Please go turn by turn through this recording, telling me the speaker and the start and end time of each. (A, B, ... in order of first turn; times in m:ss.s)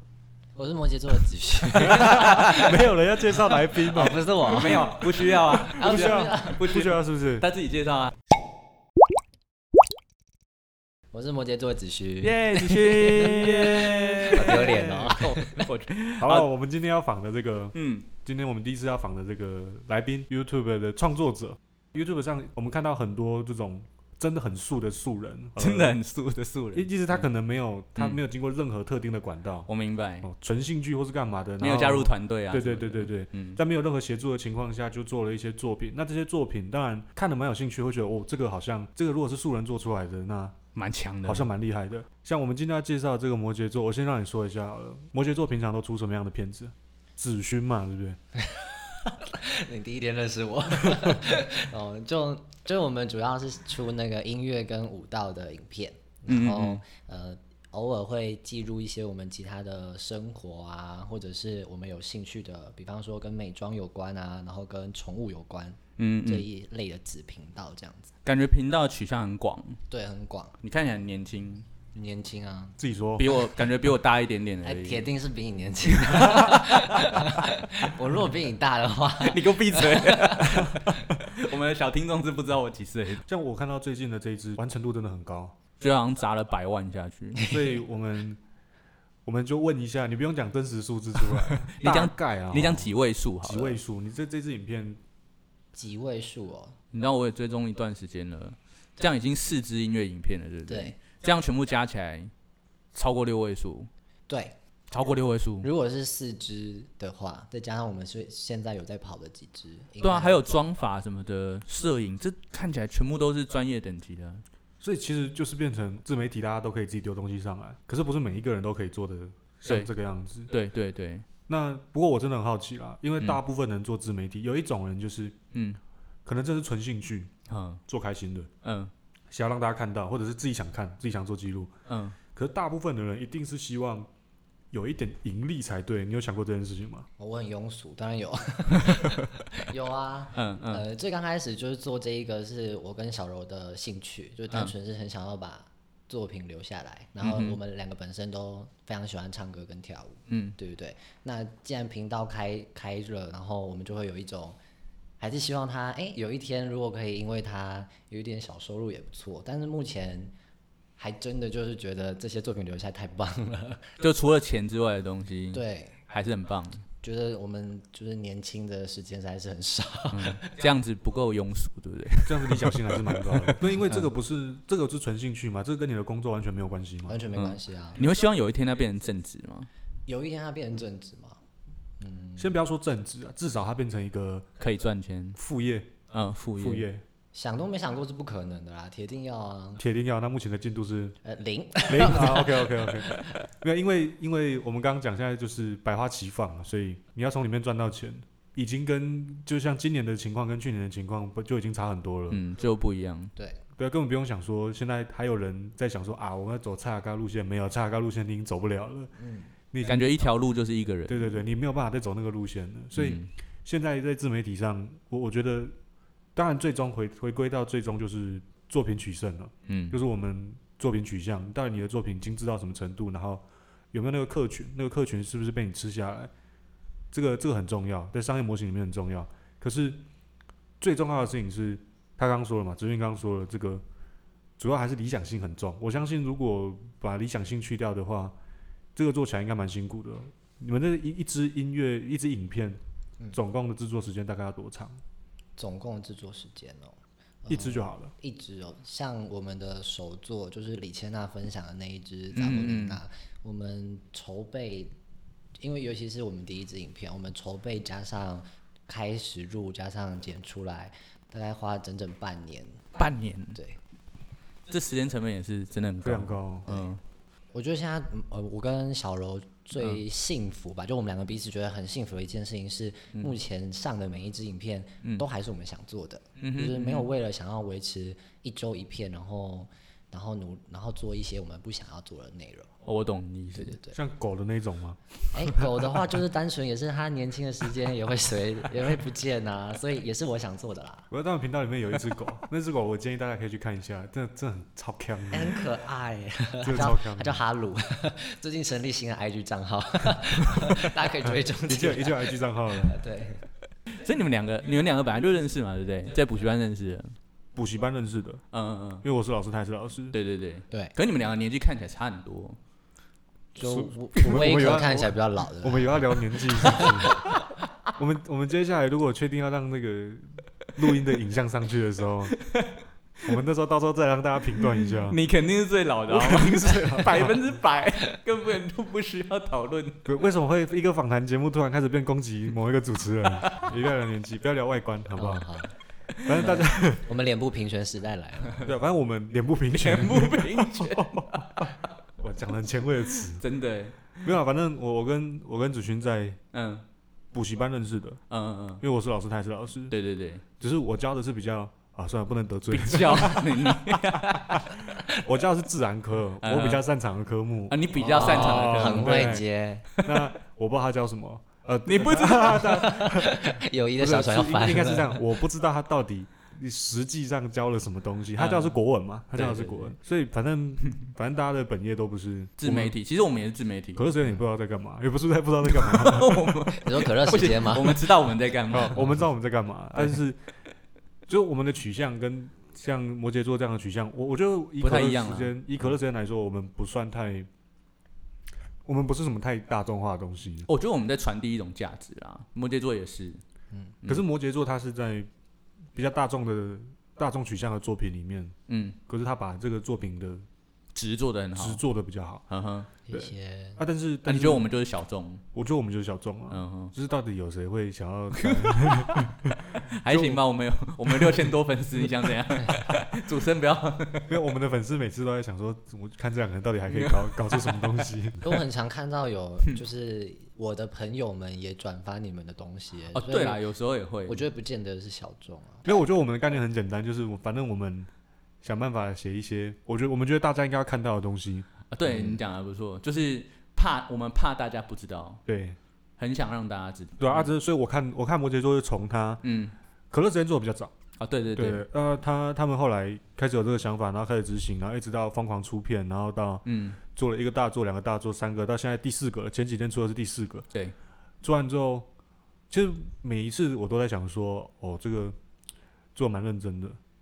0:00.6-0:06.8 A
0:01.8-0:04.2 B
0:02.0-0:02.5 C
0:04.4-0:08.1 C
0:05.6-0:07.4 B
0:11.1-0:15.6 A
0:12.2-0:16.5 C
0:13.1-0:13.4 B
0:14.4-0:15.1 B
0:16.2-0:26.0 B
0:17.7-0:18.1 C
0:25.6-0:27.3 C
0:26.7-0:29.7 B
0:29.7-0:30.3 C
0:30.2-0:40.6 B
0:31.6-0:33.6 C
0:40.7-0:41.5 C
0:41.2-0:48.2 B
0:48.5-1:08.1 A
0:56.3-0:56.8 C
1:06.0-1:06.5 C
1:08.2-1:09.8 C
1:09.9-1:10.5 A
1:10.6-1:11.6 C
1:11.9-1:12.8 A
1:12.8-1:13.3 B
1:13.2-1:15.1 C
1:14.6-1:20.8 A
1:16.0-1:17.2 C
1:19.2-1:23.2 C
1:23.2-1:25.5 B
1:25.8-1:27.4 C
1:27.4-1:27.6 A
1:27.4-1:28.4 B
1:29.2-1:32.9 B
1:31.6-1:33.8 C
1:33.4-1:35.0 B
1:35.7-1:36.7 A
1:36.9-1:42.3 C
1:40.7-1:41.0 A
1:42.9-1:43.9 C
1:44.3-1:44.6 A
1:44.9-1:45.7 C
1:45.6-1:50.4 A
1:50.0-1:54.4 C
1:54.8-2:00.5 B
2:00.5-2:01.2 C
2:01.5-2:05.4 B
2:05.5-2:05.8 C
2:06.2-2:07.3 B
2:07.5-2:07.8 C
2:07.9-2:08.5 B
2:08.6-2:08.9 C
2:09.3-2:11.7 B
2:11.9-2:12.2 C
2:12.3-2:14.1 B
2:14.7-2:17.1 B
2:17.2-2:34.6 A
2:20.3-2:20.8 C
2:27.2-2:27.6 C
2:30.3-2:30.6 C
2:35.2-2:40.3 A
2:41.0-2:43.8 A
2:44.0-2:46.8 C
2:45.5-2:46.0 A
2:47.0-2:50.4 A
2:50.1-2:54.1 C
2:52.2-2:57.2 B
2:57.1-2:58.0 A
2:57.3-2:59.7 C
3:00.1-3:01.4 A
3:02.0-3:02.6 A
3:02.4-3:04.5 B
3:04.6-3:05.4 C
3:05.4-3:05.9 B
3:06.1-3:06.8 C
3:06.6-3:07.0 B
3:07.3-3:09.8 A
3:09.8-3:11.2 B
3:11.2-3:13.4 A
3:11.8-3:22.4 B
3:22.3-3:23.3 C
3:23.4-3:23.6 A
3:23.8-3:29.1 B
3:29.2-3:29.5 A
3:29.7-3:30.2 B
3:29.8-3:31.4 C
3:31.1-3:35.7 B
3:32.9-3:33.3 C
3:36.3-3:46.3 B
3:39.6-3:40.0 C
3:47.1-3:50.0 B
3:50.8-3:53.8 B
3:54.6-3:58.3 B
3:59.0-4:02.8 B
4:03.3-4:05.0 B
4:05.6-4:14.9 A
4:07.5-4:08.1 B
4:12.3-4:13.0 C
4:15.6-4:22.9 A
4:23.0-4:23.6 C
4:24.7-4:27.0 C
4:26.0-4:26.7 B
4:27.5-4:42.7 A
4:36.4-4:37.1 C
4:42.8-4:43.8 C
4:43.5-4:44.0 A
4:43.9-4:45.8 B
4:45.3-4:51.1 A
4:51.1-4:55.7 B
4:55.3-5:03.4 A
4:56.6-4:57.4 B
5:01.6-5:03.0 B
5:03.9-5:07.1 C
5:07.5-5:08.4 B
5:08.5-5:09.0 C
5:09.0-5:10.2 B
5:10.1-5:12.6 C
5:13.5-5:16.0 A
5:13.6-5:17.2 B
5:16.6-5:17.0 A
5:16.6-5:17.3 C
5:18.0-5:22.3 B
5:22.4-5:22.8 C
5:23.2-5:25.2 B
5:24.6-5:30.0 C
5:26.1-5:27.4 B
5:30.0-5:35.5 B
5:35.2-5:35.7 A
5:36.2-5:37.1 B
5:36.3-5:38.7 A
5:38.6-5:43.4 B
5:39.7-5:41.7 C
5:43.4-5:44.0 C
5:44.2-5:46.4 B
5:46.5-5:46.8 C
5:47.3-5:48.2 B
5:48.3-5:48.8 C
5:48.8-5:49.9 B
5:49.9-5:50.4 C
5:50.6-5:59.4 B
5:52.7-5:54.6 C
5:56.4-5:56.8 C
5:57.7-5:59.4 C
5:58.1-5:59.9 A
6:00.0-6:12.9 B
6:01.8-6:02.6 C
6:02.5-6:05.2 A
6:08.4-6:08.8 C
6:09.3-6:09.9 C
6:12.6-6:14.0 C
6:14.0-6:16.6 B
6:15.7-6:19.2 C
6:16.8-6:18.1 A
6:18.7-6:20.4 B
6:21.3-6:27.5 B
6:24.8-6:25.6 C
6:28.8-6:30.7 B
6:30.7-6:33.4 C
6:34.1-6:35.3 B
6:35.9-6:38.5 B
6:38.7-6:39.0 C
6:39.1-6:40.4 B
6:40.9-6:41.8 C
6:41.6-6:42.4 B
6:42.5-6:42.9 C
6:43.1-6:43.8 A
6:43.1-6:44.7 B
6:44.2-6:45.4 C
6:45.5-6:50.4 B
6:46.5-6:46.9 C
6:48.4-6:54.3 C
6:51.1-6:51.5 B
6:54.3-6:58.4 B
6:56.9-6:58.1 C
6:58.4-7:03.6 A
7:03.1-7:04.4 C
7:04.3-7:05.8 A
7:05.8-7:08.1 B
7:08.6-7:11.7 B
7:11.9-7:15.4 C
7:12.0-7:12.4 A
7:15.5-7:15.8 B
7:16.2-7:17.5 C
7:17.2-7:19.4 B
7:19.4-7:19.7 C
7:20.1-7:20.9 B
7:21.2-7:21.8 C
7:21.5-7:26.6 B
7:26.6-7:27.0 C
7:27.1-7:30.6 B
7:31.4-7:32.1 B
7:32.7-7:35.4 B
7:36.1-7:37.0 B